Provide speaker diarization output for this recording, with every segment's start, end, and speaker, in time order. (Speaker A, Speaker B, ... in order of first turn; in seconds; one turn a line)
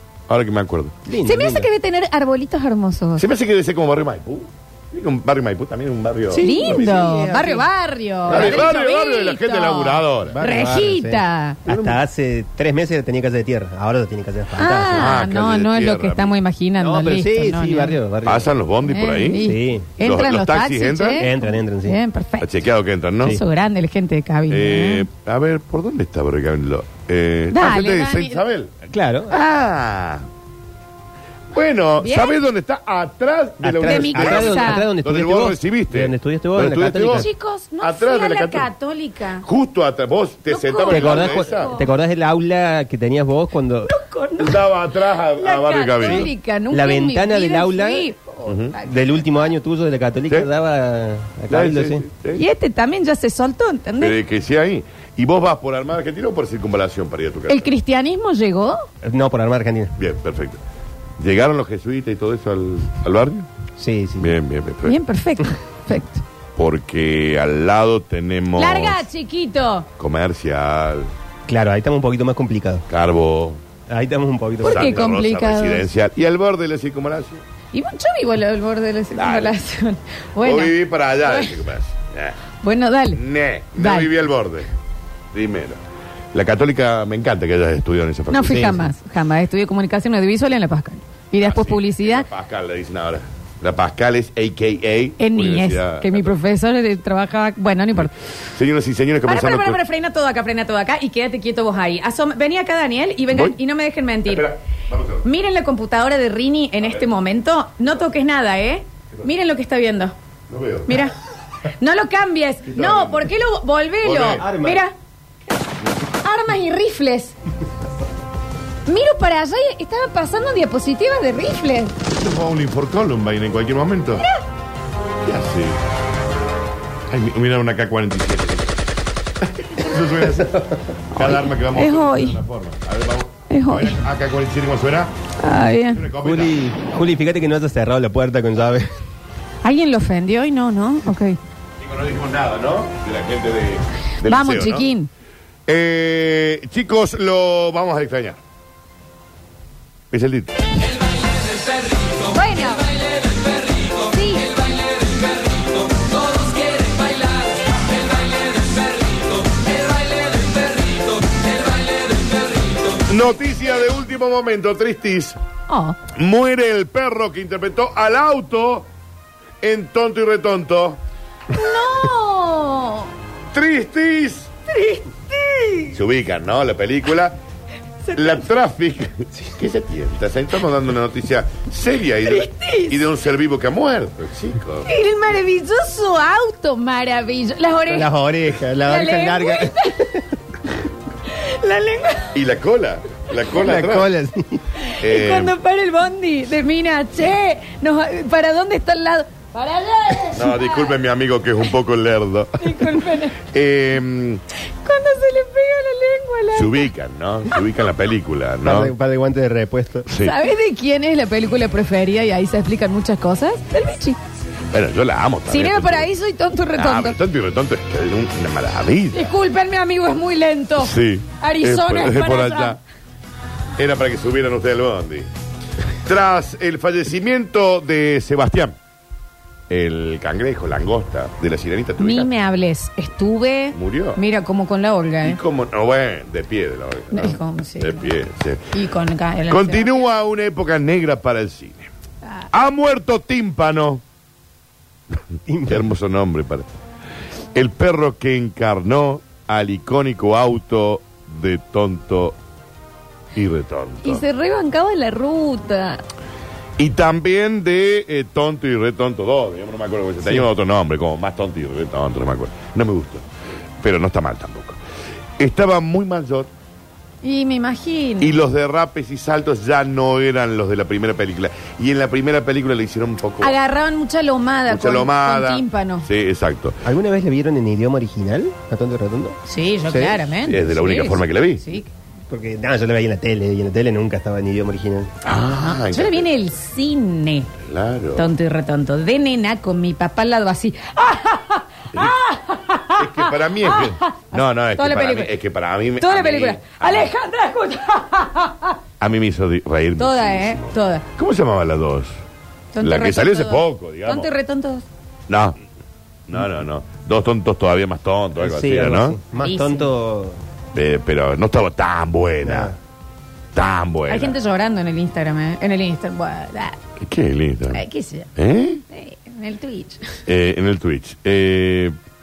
Speaker A: 0.3-0.9
Speaker B: 1.1-1.7
Speaker C: 1.2-3.2
Speaker A: 3.2-6.9
Speaker B: 6.3-7.7
Speaker C: 6.4-11.6
Speaker B: 8.2-8.7
Speaker A: 8.3-10.4
Speaker B: 10.3-15.1
Speaker C: 14.6-18.0
Speaker A: 14.9-16.3
Speaker B: 16.8-18.5
Speaker A: 18.2-21.3
Speaker C: 18.9-22.5
Speaker B: 19.4-19.9
Speaker B: 21.2-22.0
Speaker A: 22.4-23.4
Speaker C: 23.2-25.1
Speaker A: 24.5-28.7
Speaker C: 27.5-28.4
Speaker B: 28.9-29.3
Speaker A: 29.3-30.2
Speaker A: 31.5-37.3
Speaker C: 32.0-32.4
Speaker B: 33.6-37.3
Speaker C: 33.8-34.9
Speaker C: 37.1-39.4
Speaker A: 37.8-38.7
Speaker A: 39.4-41.7
Speaker C: 40.5-41.8
Speaker B: 40.9-43.9
Speaker C: 43.9-44.6
Speaker A: 44.4-46.3
Speaker C: 45.4-49.2
Speaker B: 46.0-48.1
Speaker A: 48.5-48.7
Speaker B: 48.8-52.0
Speaker A: 51.5-52.4
Speaker C: 52.3-54.1
Speaker A: 54.0-57.7
Speaker C: 57.5-58.9
Speaker B: 59.0-59.9
Speaker A: 60.0-60.6
Speaker A: 61.2-63.5
Speaker B: 63.8-64.3
Speaker A: 64.2-65.0
Speaker C: 64.8-66.2
Speaker A: 66.5-69.0
Speaker C: 68.5-69.9
Speaker A: 70.0-71.1
Speaker B: 71.5-72.8
Speaker A: 72.9-73.6
Speaker B: 73.9-75.1
Speaker C: 74.6-75.8
Speaker A: 74.6-77.4
Speaker C: 77.7-81.5
Speaker A: 79.1-79.5
Speaker A: 80.4-82.4
Speaker C: 82.6-83.2
Speaker A: 83.1-84.7
Speaker C: 83.8-84.1
Speaker A: 85.3-85.8
Speaker A: 86.3-88.9
Speaker C: 88.3-92.2
Speaker A: 91.4-96.3
Speaker C: 95.2-98.1
Speaker A: 98.0-99.8
Speaker C: 99.2-104.5
Speaker A: 104.2-105.2
Speaker C: 105.2-110.1
Speaker A: 110.5-111.0
Speaker C: 110.9-111.1
Speaker C: 111.8-114.9
Speaker A: 112.7-113.3
Speaker A: 114.0-114.4
Speaker B: 114.4-114.8
Speaker C: 116.2-117.3
Speaker C: 118.9-121.9
Speaker A: 122.2-124.2
Speaker A: 125.2-125.8
Speaker A: 127.1-128.8
Speaker A: 129.4-135.1
Speaker C: 131.2-132.4
Speaker C: 133.5-134.0
Speaker C: 135.4-136.0
Speaker A: 135.9-136.6
Speaker B: 136.2-138.9
Speaker C: 139.6-141.4
Speaker A: 141.8-144.9
Speaker C: 144.2-145.1
Speaker A: 145.7-148.4
Speaker A: 150.1-150.6
Speaker C: 152.3-152.9
Speaker C: 154.0-154.5
Speaker A: 162.9-165.4
Speaker C: 165.7-166.0
Speaker A: 166.1-168.9
Speaker A: 169.6-171.0
Speaker C: 171.5-173.1
Speaker A: 173.5-174.5
Speaker C: 174.7-175.9
Speaker A: 175.9-177.3
Speaker C: 178.1-178.4
Speaker A: 178.1-184.9
Speaker C: 182.2-183.0
Speaker C: 184.8-188.1
Speaker B: 187.9-190.2
Speaker C: 188.8-190.1
Speaker C: 191.3-192.3
Speaker A: 192.3-194.1
Speaker B: 193.5-194.6
Speaker C: 194.8-200.9
Speaker A: 195.0-195.5
Speaker A: 200.3-204.4
Speaker C: 202.6-203.4
Speaker C: 204.8-206.9
Speaker A: 206.5-208.9
Speaker B: 208.6-210.1
Speaker A: 210.1-210.3
Speaker C: 210.2-214.2
Speaker A: 214.7-216.1
Speaker C: 215.5-217.2
Speaker A: 216.7-219.3
Speaker C: 219.1-222.8
Speaker A: 220.8-222.8
Speaker A: 223.8-225.3
Speaker A: 226.0-228.7
Speaker A: 229.7-232.3
Speaker C: 232.0-235.4
Speaker A: 233.7-234.2
Speaker A: 235.2-238.7
Speaker C: 237.1-238.0
Speaker C: 238.7-240.0
Speaker A: 239.5-241.9
Speaker A: 242.5-244.0
Speaker B: 245.5-245.8
Speaker A: 245.6-246.7
Speaker A: 247.5-252.3
Speaker A: 253.3-254.2
Speaker C: 254.0-256.0
Speaker A: 256.8-263.2
Speaker A: 263.8-264.8
Speaker A: 265.4-266.5
Speaker C: 267.2-268.3
Speaker A: 268.2-273.5
Speaker C: 273.4-276.0
Speaker A: 274.7-276.8
Speaker B: 276.8-280.2
Speaker C: 279.5-281.9
Speaker A: 280.4-281.6
Speaker B: 282.3-285.1
Speaker A: 285.2-286.3
Speaker C: 285.9-287.5
Speaker A: 287.6-288.2
Speaker C: 288.1-295.3
Speaker A: 293.0-297.1
Speaker C: 296.0-298.8
Speaker A: 299.0-302.1
Speaker C: 300.0-301.0
Speaker C: 302.7-304.8
Speaker A: 302.8-304.3
Speaker A: 305.3-305.6
Speaker A: 306.3-309.2
Speaker B: 308.4-310.4
Speaker C: 309.4-309.9
Speaker A: 310.7-312.7
Speaker B: 312.4-312.7
Speaker A: 313.5-314.4
Speaker C: 314.1-316.8
Speaker A: 317.0-317.8
Speaker C: 317.7-318.3
Speaker A: 318.4-318.8
Speaker C: 318.9-320.2
Speaker A: 320.3-321.9